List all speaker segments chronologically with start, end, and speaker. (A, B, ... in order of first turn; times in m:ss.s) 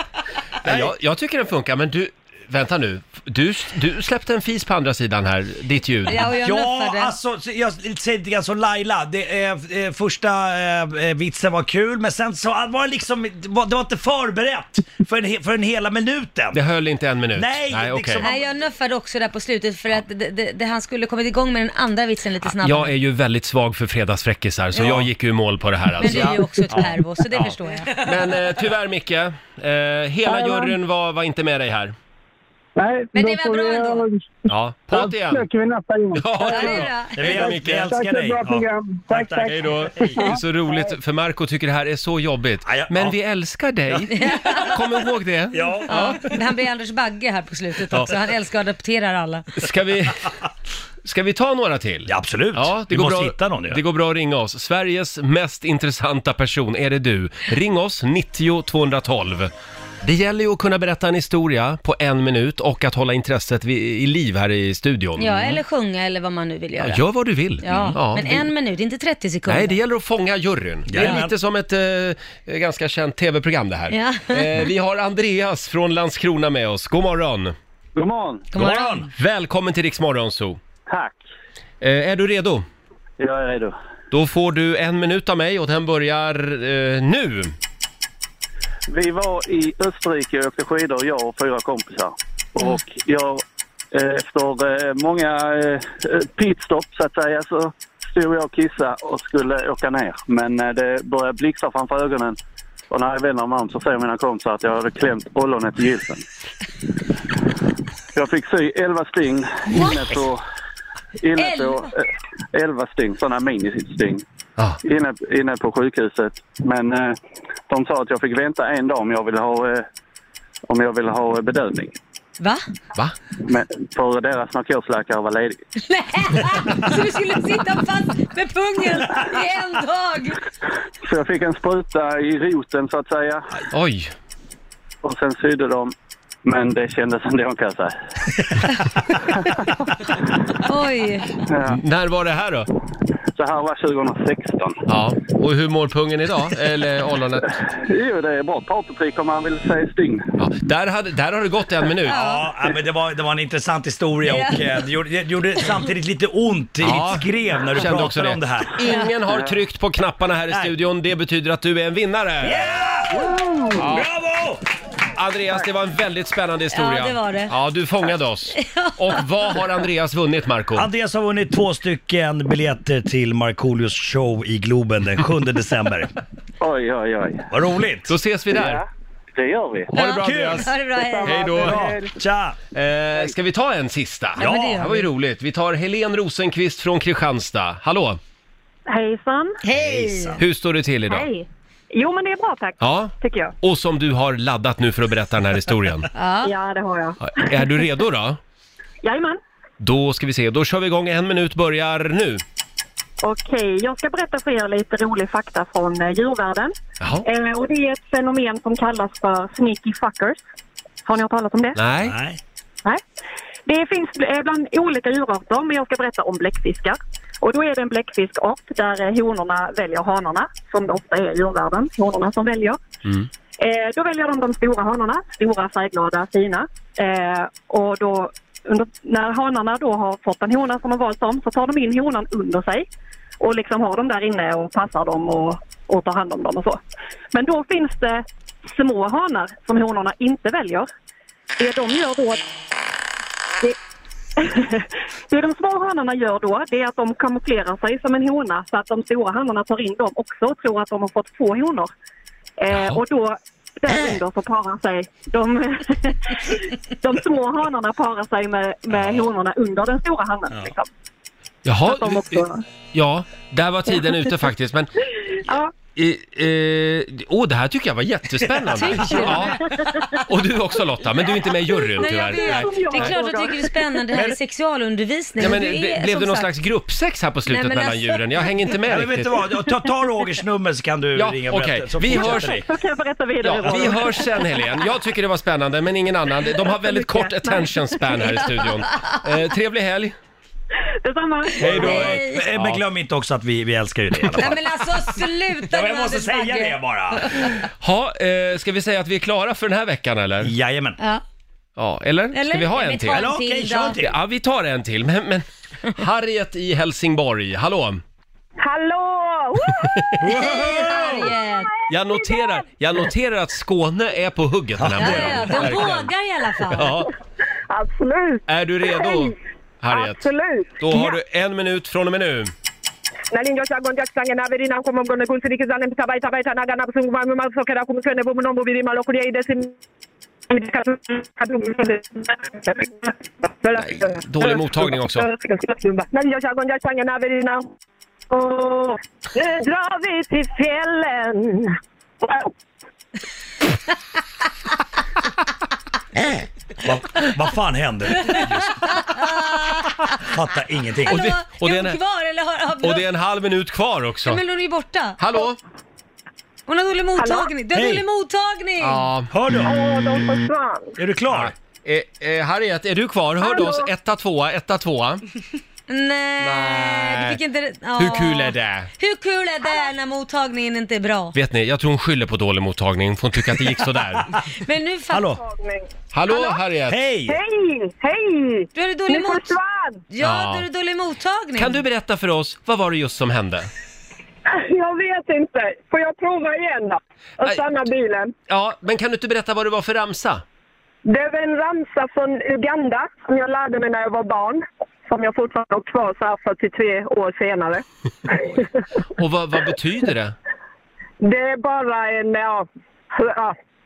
0:00.6-0:06.3 A
0:00.6-0:00.9 B
0:06.1-0:07.1 C
0:06.4-0:16.6 B
0:16.5-0:18.3 A
0:17.4-0:18.5 B
0:18.2-0:22.9 C
0:22.6-0:31.9 A
0:26.0-0:27.9 C
0:26.1-0:26.4 B
0:30.3-0:30.8 D
0:32.8-0:34.3 D
0:33.2-0:34.0 C
0:34.5-0:35.4 A
0:34.9-0:40.9 D
0:36.2-0:38.0 A
0:36.4-0:37.4 C
0:37.1-0:40.4 B
0:39.4-0:46.2 A
0:42.6-0:43.2 B
0:43.9-0:44.3 B
0:44.2-0:44.8 C
0:45.5-0:46.3 B
0:45.9-0:49.5 C
0:49.6-0:50.3 A
0:51.0-0:59.5 A
0:52.1-0:53.8 B
1:00.0-1:05.5 A
1:05.2-1:07.1 C
1:06.8-1:08.5 A
1:07.6-1:09.8 C
1:07.7-1:08.0 B
1:09.5-1:17.6 A
1:10.9-1:11.3 B
1:13.9-1:14.6 C
1:18.0-1:18.5 E
1:18.6-1:19.1 B
1:18.6-1:18.8 C
1:19.1-1:20.6 A
1:20.9-1:21.2 E
1:21.8-1:22.6 A
1:23.2-1:23.7 E
1:24.1-1:27.6 A
1:28.9-1:42.4 E
1:42.9-1:46.2 E
1:48.1-1:50.4 E
1:49.8-1:50.0 C
1:51.2-1:54.2 E
1:51.4-1:51.9 C
1:54.8-1:57.2 E
1:57.7-1:59.8 E
2:00.7-2:02.0 E
2:03.4-2:05.6 E
2:05.8-2:10.4 C
2:11.0-2:13.5 E
2:13.7-2:14.1 A
2:15.0-2:15.9 E
2:16.4-2:18.0 E
2:20.6-2:21.4 C
2:21.5-2:21.8 E
2:21.7-2:22.7 A
2:23.4-2:24.8 E
2:24.9-2:27.5 A
2:27.5-2:30.2 E
2:30.4-2:32.2 A
2:32.1-2:32.5 C
2:32.1-2:38.7 B
2:34.3-2:34.6 C
2:36.8-2:42.7 A
2:38.8-2:39.1 C
2:39.3-2:39.6 E
2:42.4-2:44.6 B
2:43.8-2:44.1 A
2:45.2-2:50.9 A
2:46.7-2:47.5 C
2:48.6-2:49.2 C
2:50.8-2:56.1 B
2:56.6-2:57.5 E
2:57.5-2:58.1 B
2:58.1-2:58.8 A
2:58.5-2:59.9 E
2:59.9-3:00.7 A
3:00.0-3:00.8 B
3:00.6-3:01.8 C
3:01.2-3:01.9 A
3:01.5-3:02.6 B
3:02.7-3:08.2 A
3:04.4-3:04.9 B
3:04.4-3:05.1 C
3:08.9-3:09.6 F
3:09.6-3:10.4 C
3:09.7-3:10.4 B
3:10.4-3:11.3 A
3:11.1-3:13.6 F
3:12.8-3:16.1 A
3:16.1-3:16.5 C
3:16.4-3:17.7 F
3:17.2-3:18.4 A
3:19.0-3:19.4 F
3:19.8-3:22.4 A
3:23.2-3:30.4 F
3:31.0-3:31.8 F
3:31.8-3:32.2 A
3:32.0-3:32.4 B
3:33.7-3:42.8 F
3:43.6-3:52.9 F
3:53.4-3:56.8 F
3:57.3-4:00.9 F
4:01.6-4:02.5 F
4:04.4-4:11.9 F
4:12.6-4:20.9 F
4:12.7-4:13.0 A
4:18.9-4:19.3 B
4:21.6-4:24.9 A
4:21.8-4:22.6 F
4:25.5-4:25.7 F
4:26.0-4:29.6 A
4:28.4-4:29.4 B
4:28.8-4:29.8 C
4:30.2-4:33.2 A
4:31.9-4:36.5 C
4:32.1-4:33.8 F
4:35.4-4:39.3 A
4:37.5-4:38.2 C
4:38.9-4:42.7 B
4:41.2-4:42.6 A
4:42.1-4:44.5 F
4:43.4-4:50.1 A
4:51.0-4:52.0 F
4:51.6-4:52.4 C
4:51.6-4:54.6 B
4:51.8-4:52.8 A
4:54.4-4:57.6 C
4:55.6-4:57.6 B
4:57.8-5:00.5 A
5:00.4-5:01.0 B
5:01.8-5:03.3 A
5:02.3-5:04.0 C
5:03.1-5:04.1 B
5:04.0-5:08.0 A
5:08.6-5:10.2 G
5:09.8-5:10.2 A
5:10.2-5:11.4 B
5:10.3-5:11.7 C
5:11.9-5:16.1 A
5:14.8-5:15.9 B
5:15.0-5:17.0 C
5:16.7-5:17.1 A
5:17.7-5:19.4 G
5:18.5-5:22.5 A
5:19.9-5:21.2 G
5:23.3-5:29.8 G
5:30.5-5:37.7 G
5:33.8-5:35.3 A
5:38.3-5:41.7 G
5:42.2-5:42.5 G
5:46.8-5:49.0 B
5:48.3-5:50.2 C
5:50.2-5:51.2 B
5:51.0-5:53.0 C
5:51.1-5:52.0 A
5:52.8-5:54.4 A
5:54.2-5:55.4 C
5:55.2-5:55.6 A
5:56.7-5:59.1 C
5:57.7-5:58.0 B
5:58.8-5:59.3 A
5:59.3-5:59.8 B
5:59.6-6:01.0 G
6:01.0-6:01.5 B
6:01.3-6:05.2 A
6:05.9-6:11.4 C
6:06.4-6:07.4 A
6:08.0-6:08.9 A
6:11.3-6:14.3 A
6:14.5-6:15.4 C
6:15.1-6:15.4 B
6:15.4-6:15.9 G
6:16.1-6:17.0 A
6:16.9-6:17.4 B
6:17.3-6:20.0 G
6:18.8-6:19.6 C
6:20.1-6:21.8 C
6:20.2-6:20.7 A
6:21.6-6:23.7 A
6:24.5-6:28.3 G
6:28.5-6:30.4 A
6:31.0-6:38.7 G
6:39.2-6:40.4 A
6:41.2-6:43.6 G